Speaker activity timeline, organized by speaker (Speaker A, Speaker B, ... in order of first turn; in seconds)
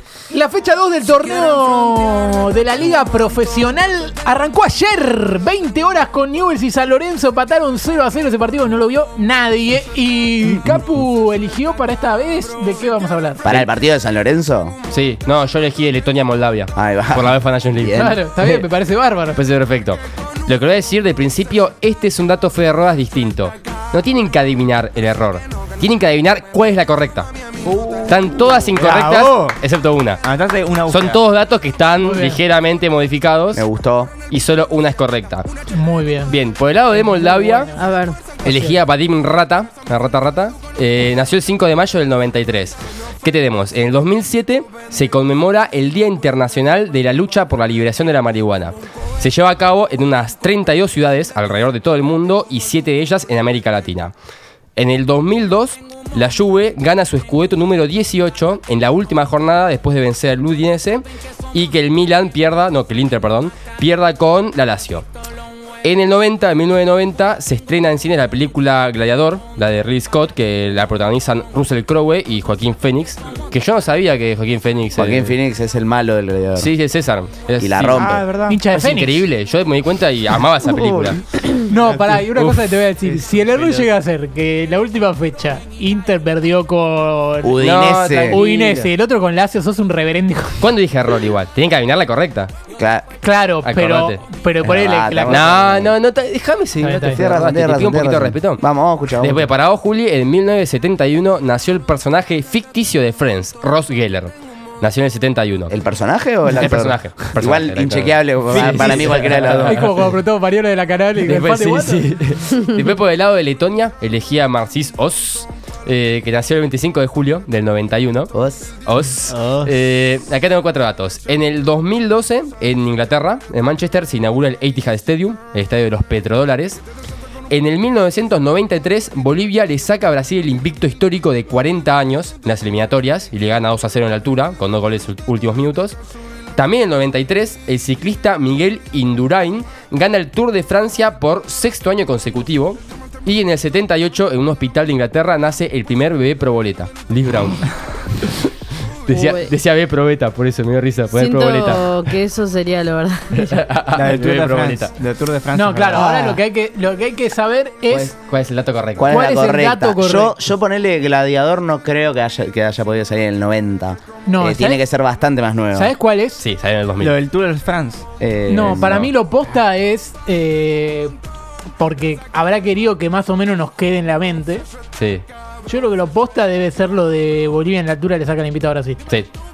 Speaker A: 0.3-13.4, 17.9-19.4, 32.0-32.4, 35.7-36.4, 36.9-38.8, 78.5-79.2, 81.6-87.6, 88.3-90.7, 93.2-95.5, 96.8-97.2, 109.5-112.1, 155.5-158.1, 159.1-160.3, 164.3-164.8, 165.7-166.4, 168.5-171.1, 171.8-174.7, 175.7-179.1
Speaker B: 13.4-14.8, 16.8-18.2, 33.5-34.1, 75.0-76.7, 77.6-78.3, 80.7-81.2, 87.4-88.4, 92.8-93.0, 94.6-96.0, 97.1-99.5, 105.7-109.8, 118.3-118.7, 159.0-165.9, 168.2-169.1
Speaker C: 14.9-18.6, 19.4-27.3, 28.1-30.2, 30.9-33.7, 34.3-35.5, 36.3-37.7, 38.4-54.1, 54.8-65.0, 65.8-75.3, 76.6-78.2, 78.7-81.2, 87.6-88.9, 90.6-92.5, 93.6-94.2, 95.3-98.6, 99.2-105.7, 106.5-109.9, 111.2-118.3, 118.9-126.8, 127.5-136.0, 136.6-148.5, 149.1-152.2, 153.3-154.9, 157.9-159.1, 166.4-167.2, 174.9-175.2
Speaker D: 28.8-29.6, 30.2-31.2, 78.0-78.6, 81.7-83.9, 108.5-109.6, 153.9-156.4, 167.0-168.1
Speaker E: 37.8-38.2, 149.1-149.5, 151.1-153.6